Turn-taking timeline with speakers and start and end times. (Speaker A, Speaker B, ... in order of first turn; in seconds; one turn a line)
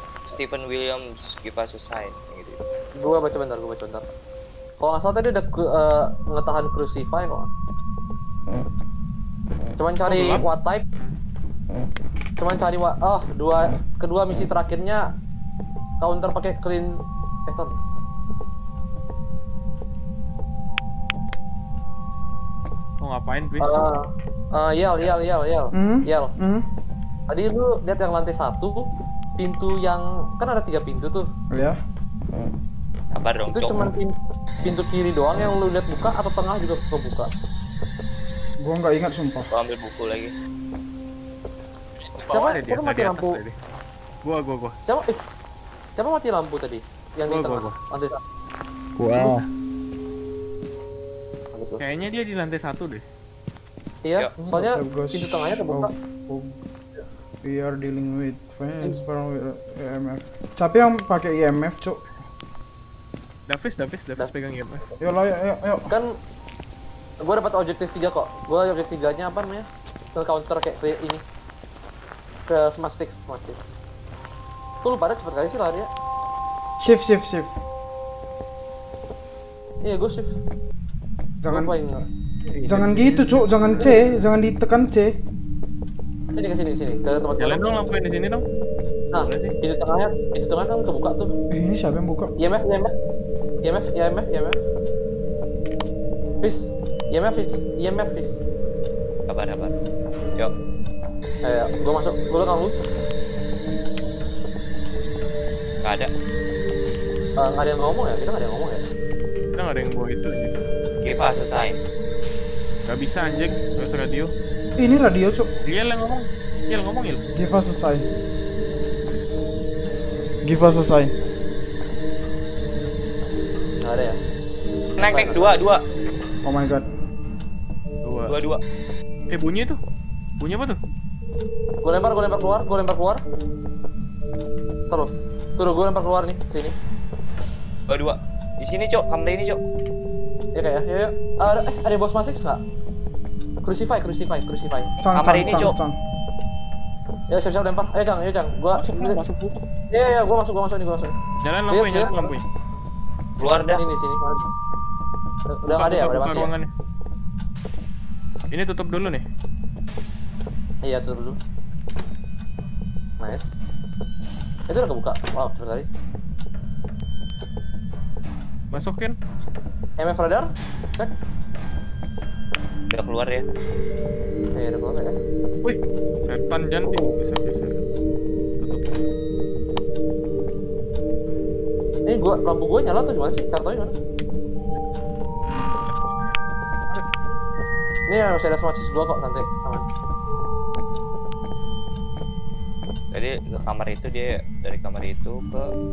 Speaker A: 0.3-2.6
Speaker B: 3.0-4.1
Speaker B: 4.8-7.5
Speaker B: 9.8-10.8
Speaker C: 10.1-10.4
Speaker B: 12.4-15.1
Speaker B: 16.0-16.9
Speaker B: 17.5-17.8
Speaker C: 23.0-23.9
Speaker B: 23.6-26.3
Speaker D: 25.7-26.7
Speaker B: 27.3-28.9
Speaker B: 29.4-31.3
Speaker D: 31.5-31.8
Speaker A: 33.1-33.9
Speaker B: 33.5-37.3
Speaker D: 38.6-39.5
Speaker A: 39.5-40.3
Speaker C: 42.0-43.6
Speaker B: 42.2-43.4
Speaker C: 44.2-44.8
Speaker B: 44.9-45.2
Speaker B: 46.0-48.2
Speaker C: 47.3-47.8
Speaker C: 49.0-49.4
Speaker B: 51.5-51.8
Speaker C: 51.8-53.0
Speaker B: 54.0-55.9
Speaker D: 54.4-56.6
Speaker D: 57.4-62.0
Speaker C: 63.5-64.8
Speaker D: 65.0-65.9
Speaker B: 67.2-71.2
Speaker B: 72.5-73.6
Speaker B: 74.8-75.9
Speaker D: 76.8-77.6
Speaker B: 79.8-80.4
Speaker D: 81.4-81.7
Speaker B: 81.5-82.1
Speaker C: 82.5-84.1
Speaker D: 82.7-85.2
Speaker B: 86.3-87.6
Speaker C: 87.4-88.5
Speaker B: 89.1-91.3
Speaker C: 89.2-89.5
Speaker D: 91.5-92.3
Speaker B: 92.4-92.9
Speaker B: 93.6-94.6
Speaker B: 96.4-98.4
Speaker A: 99.3-99.8
Speaker B: 101.4-102.8
Speaker A: 105.8-106.1
Speaker B: 107.4-108.8
Speaker C: 109.6-110.5
Speaker A: 111.0-111.8
Speaker B: 111.2-111.7
Speaker C: 112.9-114.3
Speaker D: 114.8-115.5
Speaker C: 115.7-117.2
Speaker D: 117.3-118.1
Speaker D: 120.4-121.1
Speaker B: 123.8-124.2
Speaker A: 125.0-125.8
Speaker B: 125.0-125.5
Speaker D: 126.5-126.9
Speaker C: 128.1-128.4
Speaker A: 128.3-128.6
Speaker C: 129.3-129.8
Speaker C: 130.4-130.8
Speaker B: 131.8-133.2
Speaker B: 134.9-136.8
Speaker A: 137.9-139.6
Speaker B: 140.6-142.6
Speaker B: 143.6-144.9
Speaker D: 145.0-146.0
Speaker A: 145.2-145.8
Speaker B: 147.3-149.2
Speaker C: 148.8-149.6
Speaker B: 149.9-151.2
Speaker C: 151.4-152.4
Speaker B: 151.7-152.3
Speaker A: 153.4-153.8
Speaker B: 153.4-154.5
Speaker B: 155.5-156.5
Speaker C: 155.7-156.7
Speaker C: 158.5-159.2
Speaker B: 160.8-161.4
Speaker B: 163.2-163.5
Speaker B: 164.7-165.9
Speaker C: 168.7-169.2
Speaker B: 170.0-171.1
Speaker A: 172.9-173.5
Speaker B: 174.6-175.2
Speaker C: 175.6-177.8
Speaker C: 178.6-178.9
Speaker B: 182.1-183.9
Speaker B: 188.1-189.8
Speaker A: 193.1-195.7